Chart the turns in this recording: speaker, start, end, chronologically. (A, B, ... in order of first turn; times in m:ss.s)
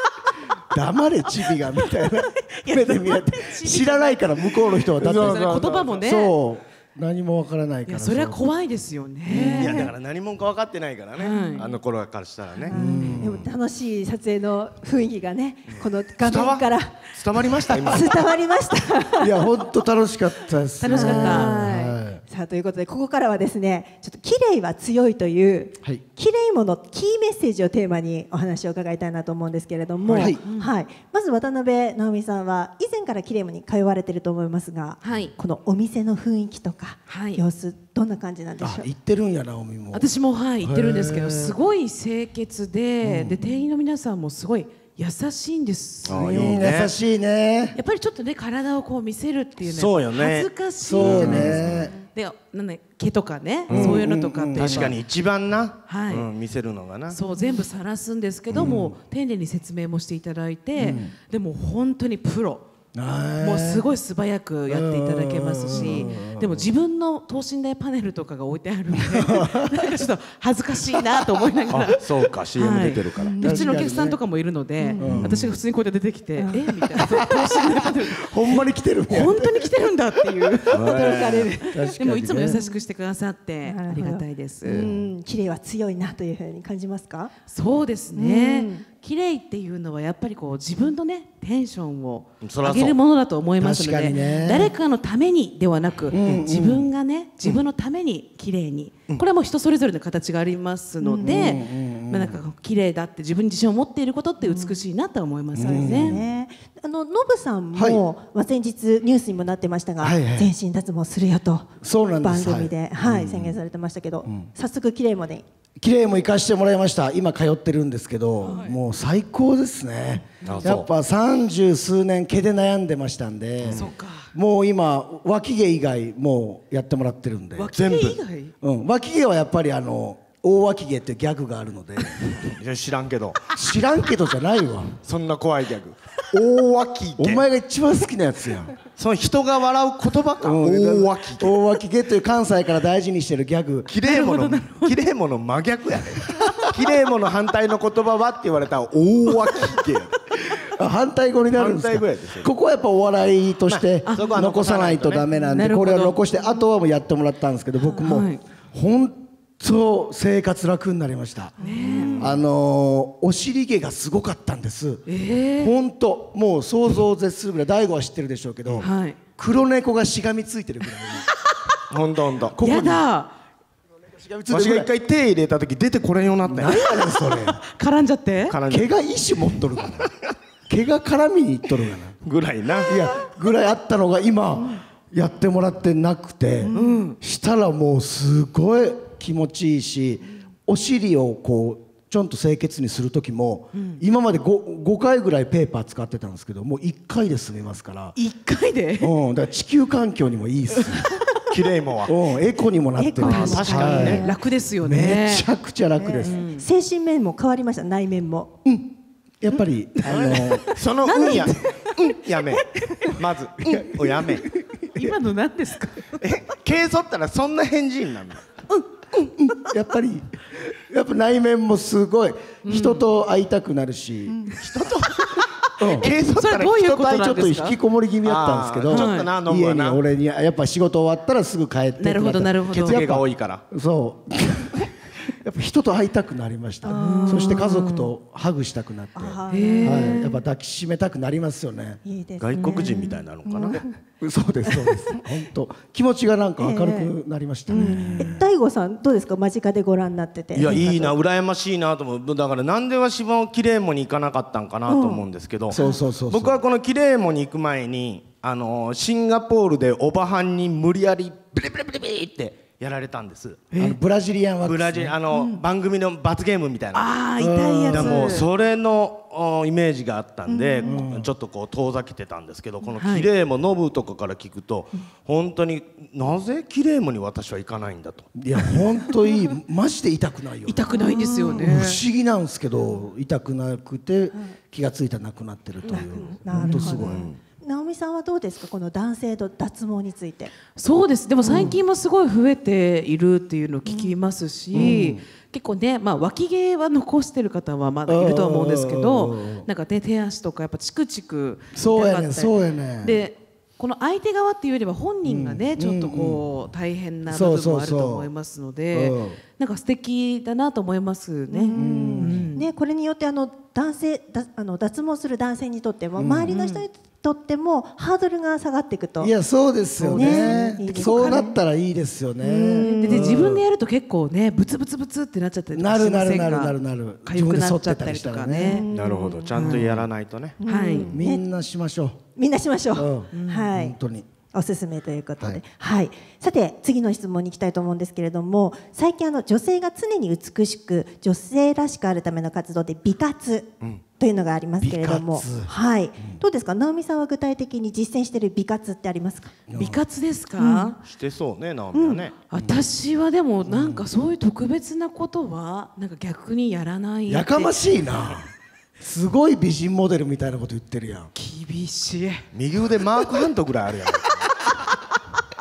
0:00.7-0:08.4 A
0:01.8-0:06.4 B
0:05.0-0:06.0 C
0:07.8-0:09.9 B
0:09.3-0:09.7 A
0:09.3-0:09.9 D
0:09.6-0:12.7 C
0:11.2-0:11.8 B
0:11.3-0:11.7 D
0:12.5-0:12.8 B
0:12.7-0:17.1 D
0:12.7-0:13.5 A
0:15.7-0:18.3 C
0:17.7-0:18.0 A
0:17.7-0:19.5 D
0:19.2-0:22.2 A
0:20.8-0:21.5 B
0:20.9-0:38.9 D
0:30.0-0:30.4 A
0:30.2-0:30.7 B
0:35.0-0:35.3 B
0:37.1-0:37.4 B
0:38.6-0:40.1 A
0:39.9-0:46.6 B
0:40.6-0:41.6 A
0:43.0-0:43.4 A
0:46.0-0:46.9 C
0:46.0-0:47.8 A
0:47.7-0:55.0 B
0:49.6-0:51.9 C
0:50.8-0:51.9 A
0:53.7-0:54.0 C
0:53.7-0:55.0 A
0:54.5-0:57.2 C
0:55.9-0:56.3 B
0:57.1-1:02.6 B
0:57.3-0:57.6 D
0:58.5-0:59.0 A
1:00.8-1:01.1 A
1:02.9-1:03.9 A
1:03.4-1:20.8 B
1:04.7-1:06.7 A
1:05.8-1:06.2 D
1:09.0-1:10.0 A
1:11.7-1:13.4 C
1:13.2-1:13.7 D
1:13.4-1:14.2 A
1:14.8-1:15.2 D
1:15.0-1:15.5 A
1:15.2-1:15.6 C
1:16.4-1:17.2 D
1:17.0-1:19.8 A
1:20.4-1:22.6 A
1:20.7-1:21.5 C
1:20.8-1:22.8 D
1:22.0-1:24.9 B
1:23.6-1:27.3 D
1:24.8-1:25.1 A
1:27.5-1:46.2 B
1:28.1-1:28.8 D
1:32.4-1:33.0 C
1:33.6-1:34.7 A
1:36.1-1:36.9 A
1:41.0-1:41.6 D
1:41.2-1:42.4 A
1:44.4-1:44.8 D
1:45.5-1:46.3 A
1:45.6-1:55.4 D
1:47.7-1:48.0 A
1:50.0-1:50.5 A
1:51.8-1:53.6 A
1:55.8-2:07.8 A
1:58.4-1:58.8 B
2:00.4-2:00.8 B
2:00.4-2:00.9 C
2:03.6-2:03.9 C
2:03.7-2:04.3 B
2:07.6-2:08.5 B
2:07.7-2:08.2 C
2:08.6-2:12.4 A
2:12.3-2:13.5 C
2:13.5-2:15.0 A
2:15.0-2:17.4 C
2:17.2-2:18.7 A
2:18.9-2:21.5 C
2:20.4-2:23.9 A
2:23.9-2:30.7 C
2:24.0-2:25.0 B
2:30.7-2:41.6 A
2:31.6-2:32.5 C
2:33.7-2:35.2 C
2:34.0-2:34.4 B
2:35.4-2:36.2 B
2:38.0-2:38.4 B
2:41.6-2:42.3 D
2:41.6-2:42.3 B
2:42.1-2:45.0 A
2:45.1-2:45.7 B
2:45.6-2:51.3 A
2:48.8-2:49.2 B
2:51.9-2:52.5 C
2:52.5-2:53.0 A
2:52.6-2:53.3 B
2:54.0-2:54.9 A
2:54.5-2:56.8 C
2:56.4-2:57.6 A
2:56.7-2:58.6 B
2:58.5-2:58.9 C
2:58.6-3:00.1 A
3:00.7-3:02.2 A
3:02.2-3:03.0 C
3:02.8-3:18.2 A
3:06.6-3:07.0 D
3:06.7-3:07.2 B
3:13.7-3:14.0 B
3:18.2-3:19.1 B
3:19.0-3:21.2 A
3:20.8-3:21.1 B
3:21.5-3:22.1 C
3:22.0-3:24.3 A
3:23.0-3:24.4 D
3:23.2-3:25.5 B
3:23.2-3:24.3 C
3:24.8-3:26.4 A
3:26.0-3:28.5 D
3:26.2-3:26.6 B
3:28.6-3:31.5 A
3:30.0-3:34.4 C
3:31.0-3:32.0 B
3:32.6-3:33.1 B
3:33.6-3:35.2 A
3:34.9-3:36.2 B
3:36.2-3:38.5 C
3:39.4-3:44.4 A
3:42.6-3:43.0 B
3:44.6-3:47.4 C
3:45.8-3:46.1 A
3:45.8-3:47.8 B
3:47.2-4:02.0 A
3:48.2-3:50.0 C
3:48.9-3:49.3 B
3:52.0-3:53.0 B
3:52.7-3:53.6 C
3:56.8-3:58.1 B
3:56.9-3:57.6 D
3:59.2-4:00.4 D
3:59.5-4:00.2 B
4:02.0-4:04.0 D
4:02.4-4:03.8 C
4:02.6-4:03.2 B
4:04.2-4:08.5 A
4:04.7-4:05.2 D
4:06.6-4:07.1 D
4:07.7-4:11.1 D
4:07.8-4:08.3 B
4:10.5-4:15.8 C
4:10.6-4:11.1 A
4:14.9-4:15.2 D
4:15.7-4:16.6 A
4:15.7-4:16.0 D
4:16.3-4:23.7 C
4:23.7-4:24.0 B
4:23.8-4:25.2 A
4:24.6-4:27.2 C
4:26.9-4:28.5 B
4:27.4-4:28.3 A
4:27.9-4:38.9 C
4:30.5-4:31.0 D
4:30.8-4:31.3 A
4:33.0-4:33.3 B
4:38.3-4:40.9 A
4:40.7-4:42.0 B
4:40.9-4:41.8 D
4:41.5-4:47.3 A
4:45.8-4:50.5 D
4:46.5-4:47.1 B
4:47.0-4:47.4 C
4:50.8-5:12.6 B
4:51.4-4:51.7 D
4:51.4-4:51.8 A
4:53.9-4:54.1 D
4:54.7-4:55.2 A
4:58.1-4:59.7 A
5:01.7-5:03.2 A
5:05.2-5:06.4 A
5:07.2-5:08.3 A
5:08.9-5:09.4 A
5:11.5-5:19.3 D
5:11.7-5:12.5 A
5:16.2-5:16.5 A
5:16.5-5:16.8 B
5:19.2-5:23.6 A
5:20.0-5:21.6 D
5:20.1-5:21.4 B
5:22.4-5:23.4 D
5:22.8-5:28.9 B
5:25.7-5:28.8 A
5:28.6-5:29.6 D
5:28.9-5:30.6 C
5:29.5-5:29.8 B
5:29.6-5:30.1 A
5:30.6-5:31.4 D
5:30.6-5:31.1 B
5:31.0-5:32.2 A
5:32.4-5:34.0 D
5:32.9-5:34.3 A
5:33.3-5:33.7 B
5:34.5-5:49.6 D
5:44.8-5:46.4 A
5:49.7-5:50.0 A
5:49.7-5:51.0 B
5:50.6-5:51.0 D
5:51.0-5:52.4 C
5:51.9-5:52.2 D
5:52.4-5:57.8 B
5:52.6-5:52.9 A
5:53.6-5:54.0 A
5:57.3-6:01.3 A
6:01.3-6:02.5 B
6:02.5-6:04.6 C